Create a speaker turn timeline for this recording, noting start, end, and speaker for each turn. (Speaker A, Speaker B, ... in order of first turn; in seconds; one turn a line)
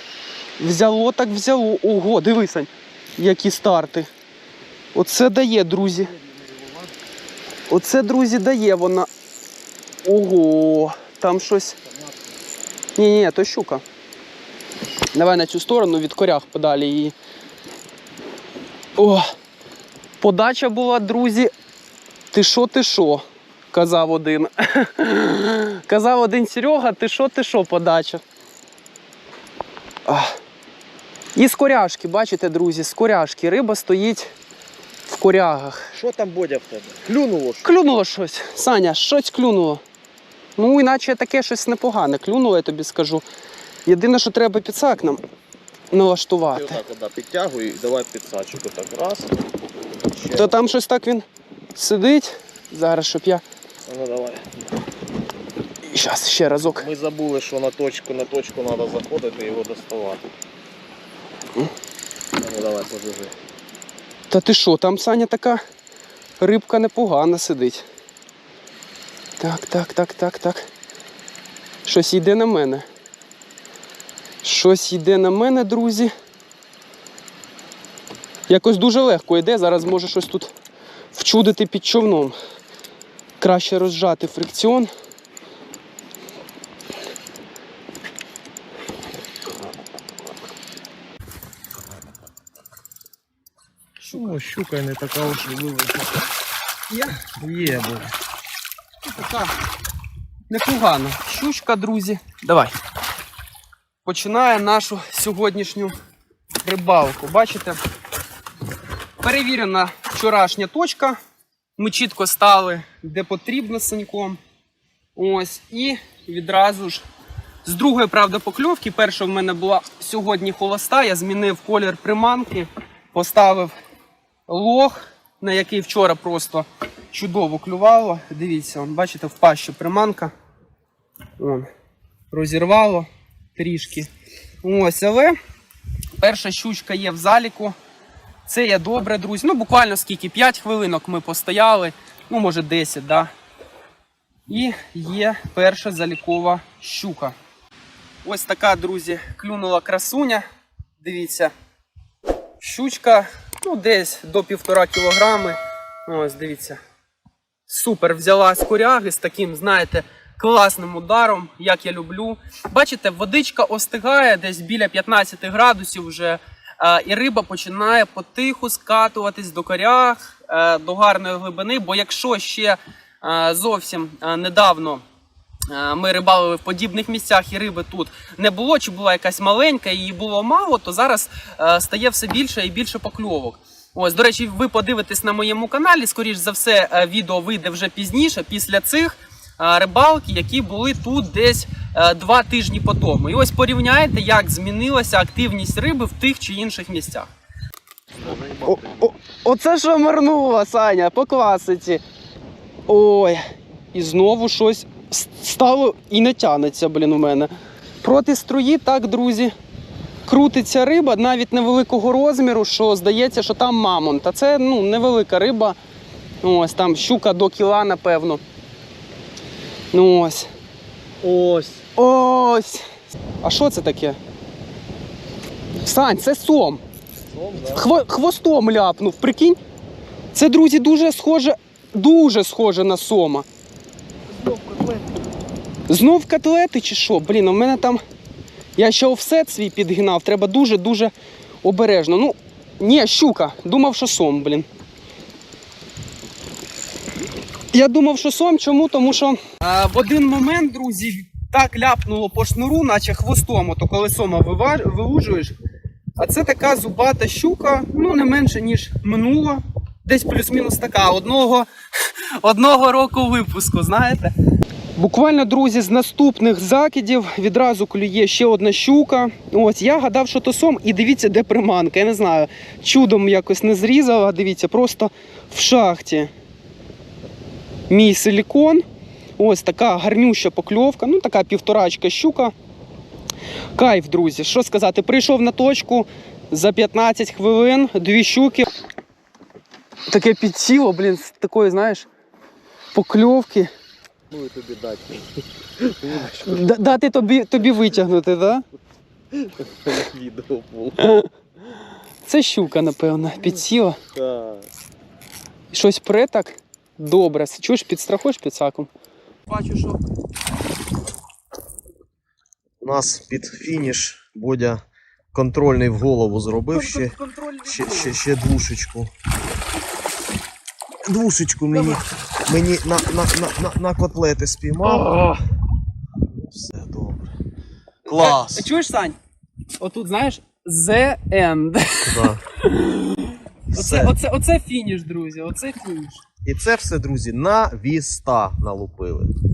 Speaker A: 0.6-4.1
Speaker A: 4.9-6.1
Speaker A: 7.7-9.1
Speaker A: 10.0-11.8
Speaker A: 12.9-13.8
Speaker A: 15.1-17.1
Speaker A: 18.9-19.2
Speaker A: 20.2-21.5
Speaker A: 22.3-28.2
Speaker A: 30.1-30.4
Speaker A: 31.3-34.3
Speaker A: 35.1-35.9
Speaker B: 35.9-37.7
Speaker A: 37.6-39.8
Speaker A: 40.6-43.2
Speaker A: 43.9-45.2
Speaker A: 45.9-46.8
Speaker B: 46.5-49.4
Speaker B: 50.1-50.6
Speaker A: 50.3-53.4
Speaker B: 53.9-54.5
Speaker A: 55.9-56.8
Speaker B: 56.7-60.3
Speaker B: 62.4-63.3
Speaker A: 64.3-65.6
Speaker A: 66.4-67.8
Speaker A: 69.4-70.7
Speaker A: 71.8-72.8
Speaker A: 74.4-76.1
Speaker A: 78.5-80.5
Speaker A: 81.1-82.3
Speaker A: 83.4-84.9
Speaker A: 94.0-94.3
Speaker B: 94.1-96.1
Speaker A: 96.9-97.3
Speaker B: 97.4-98.1
Speaker A: 99.0-99.5
Speaker A: 100.5-102.7
Speaker A: 104.0-106.0
Speaker A: 106.6-107.8
Speaker A: 109.2-111.2
Speaker A: 111.8-114.4
Speaker A: 115.1-117.0
Speaker A: 117.6-123.7
Speaker A: 124.5-130.3
Speaker A: 131.4-131.7
Speaker A: 132.3-134.1
Speaker A: 134.6-135.3
Speaker A: 136.2-137.7
Speaker A: 138.4-143.3
Speaker A: 144.5-147.3
Speaker A: 148.2-150.4
Speaker A: 151.0-151.5
Speaker A: 152.6-156.8
Speaker A: 157.7-175.0
Speaker A: 175.7-197.3
Speaker B: 198.2-199.1
Speaker A: 198.6-202.0
Speaker A: 202.9-209.5
Speaker A: 210.2-215.8
Speaker A: 216.4-218.4
Speaker A: 219.9-220.5
Speaker B: 221.2-221.8
Speaker A: 221.9-222.8
Speaker A: 223.4-224.2
Speaker A: 225.8-226.8
Speaker B: 227.3-227.9
Speaker A: 227.7-229.6
Speaker A: 230.3-233.5
Speaker B: 234.4-235.0
Speaker A: 235.9-238.0
Speaker A: 238.8-241.1
Speaker A: 241.6-244.7
Speaker A: 247.7-255.6
Speaker A: 256.2-264.3
Speaker A: 264.9-276.3
Speaker A: 277.9-278.8
Speaker A: 279.4-282.5
Speaker A: 283.8-288.7
Speaker A: 290.1-292.1
Speaker A: 292.9-293.7
Speaker B: 294.3-296.7
Speaker A: 296.2-298.6
Speaker B: 299.3-301.1
Speaker A: 301.0-301.3
Speaker A: 302.2-304.0
Speaker B: 304.1-304.7
Speaker A: 305.7-308.9
Speaker A: 309.5-310.0
Speaker B: 312.8-314.8
Speaker B: 315.3-319.1
Speaker A: 316.7-318.2
Speaker B: 321.1-325.2
Speaker A: 324.9-325.4
Speaker B: 326.2-327.3
Speaker B: 328.1-328.7
Speaker A: 328.1-329.2
Speaker A: 329.8-336.2
Speaker B: 332.0-332.4
Speaker B: 333.7-334.1
Speaker B: 336.4-339.3